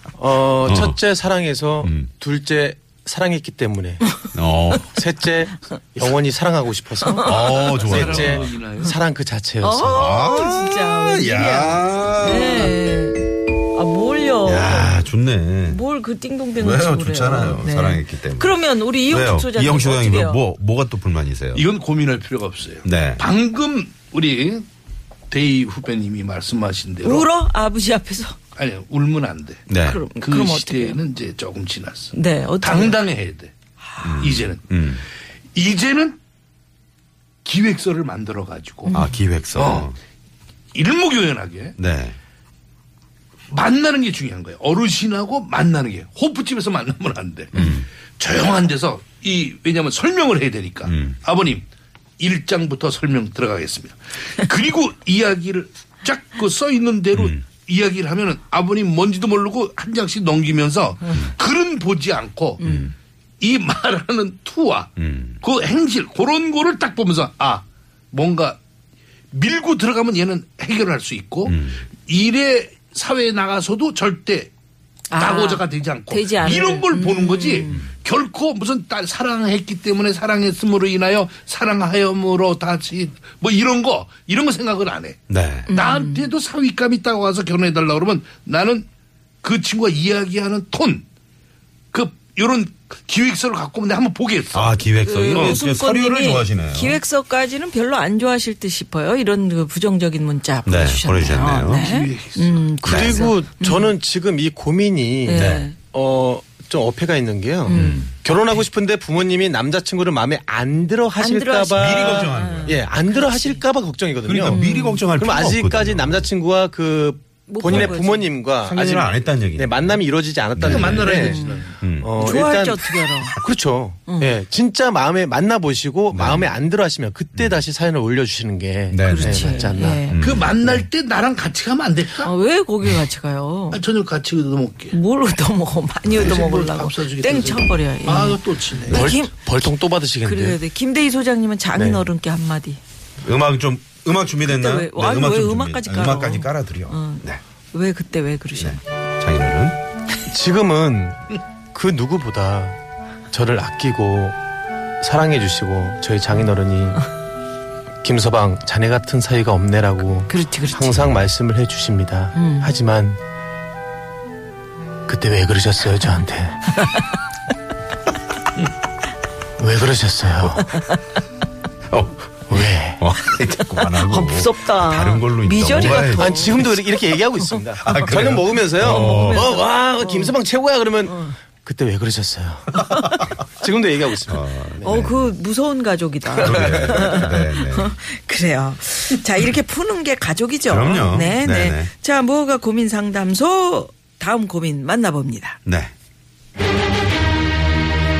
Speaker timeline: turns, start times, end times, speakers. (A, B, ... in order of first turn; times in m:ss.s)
0:00.2-0:04.0 A
0:00.6-0:01.0 B
0:01.8-0:02.1 B
0:04.0-0:04.3 C
0:04.3-0:04.9 B
0:04.9-0:10.1 A
0:07.0-0:07.8 C
0:07.2-0:08.5 B
0:07.8-0:09.0 D
0:09.6-0:15.0 C
0:09.9-0:12.8 B
0:14.4-0:15.8 B
0:15.6-0:20.4 C
0:16.6-0:21.6 B
0:21.5-0:24.6 D
0:22.8-0:23.2 B
0:25.3-0:27.3 D
0:27.0-0:28.4 C
0:28.6-0:29.6 D
0:29.7-0:30.0 B
0:29.8-0:31.0 C
0:30.2-0:33.5 D
0:32.1-0:33.0 C
0:33.9-0:34.4 C
0:34.0-0:35.0 B
0:34.2-0:34.6 D
0:35.5-0:36.2 D
0:37.4-0:38.9 D
0:38.8-0:39.2 C
0:38.9-0:40.0 B
0:39.6-0:39.9 D
0:40.7-0:41.8 D
0:41.8-0:42.2 B
0:43.5-0:51.6 D
0:47.5-0:47.9 B
0:50.8-0:51.2 B
0:52.2-1:02.8 D
0:57.1-0:57.4 B
1:02.6-1:02.9 C
1:02.6-1:02.9 B
1:03.4-1:08.6 D
1:05.0-1:05.4 B
1:09.3-1:14.5 D
1:11.4-1:11.8 B
1:15.1-1:17.8 C
1:15.2-1:25.2 D
1:25.3-1:25.7 B
1:25.7-1:26.2 C
1:25.7-1:28.8 D
1:29.4-1:31.0 D
1:31.9-1:34.7 D
1:34.5-1:37.0 B
1:35.0-1:43.9 C
1:35.3-1:35.6 D
1:40.6-1:41.9 B
1:41.8-1:42.6 D
1:42.8-1:43.3 B
1:42.8-2:01.5 A
1:45.2-1:45.8 C
1:45.3-1:45.7 B
1:47.7-1:48.1 C
1:47.7-1:48.1 B
1:51.2-1:53.6 C
1:51.7-1:52.9 B
1:54.2-1:56.3 B
1:54.5-1:55.0 C
1:57.5-1:58.3 C
1:57.6-1:58.0 B
1:58.6-2:00.0 B
2:00.5-2:01.2 B
2:00.6-2:01.8 D
2:01.2-2:03.4 C
2:01.8-2:02.4 B
2:02.0-2:10.0 A
2:04.1-2:04.4 C
2:06.1-2:06.5 B
2:08.9-2:10.8 B
2:09.0-2:10.2 C
2:10.2-2:12.3 D
2:12.2-2:13.8 C
2:13.7-2:15.0 D
2:14.9-2:19.4 C
2:16.0-2:16.4 B
2:16.1-2:19.1 D
2:18.9-2:20.6 A
2:20.2-2:22.8 C
2:21.7-2:22.0 A
2:23.2-2:27.4 B
2:24.4-2:28.8 C
2:28.6-2:29.8 B
2:30.3-2:32.8 A
2:33.3-2:34.4 A
2:35.0-2:37.0 A
2:38.0-2:43.2 A
2:40.3-2:41.1 C
2:42.3-2:42.8 C
2:45.1-2:46.7 A
2:46.8-2:47.0 C
2:49.6-2:50.8 A
2:50.7-2:51.0 C
2:51.9-2:56.7 B
2:52.5-2:53.0 A
2:53.7-2:56.8 C
2:55.6-3:02.8 A
2:57.8-2:59.5 B
2:58.8-3:00.4 C
3:01.0-3:01.4 C
3:02.7-3:03.3 C
3:02.7-3:03.3 B
3:03.6-3:05.0 A
3:04.2-3:05.3 B
3:04.8-3:15.6 C
3:06.3-3:07.2 A
3:06.4-3:07.9 B
3:10.7-3:11.9 B
3:15.6-3:15.9 B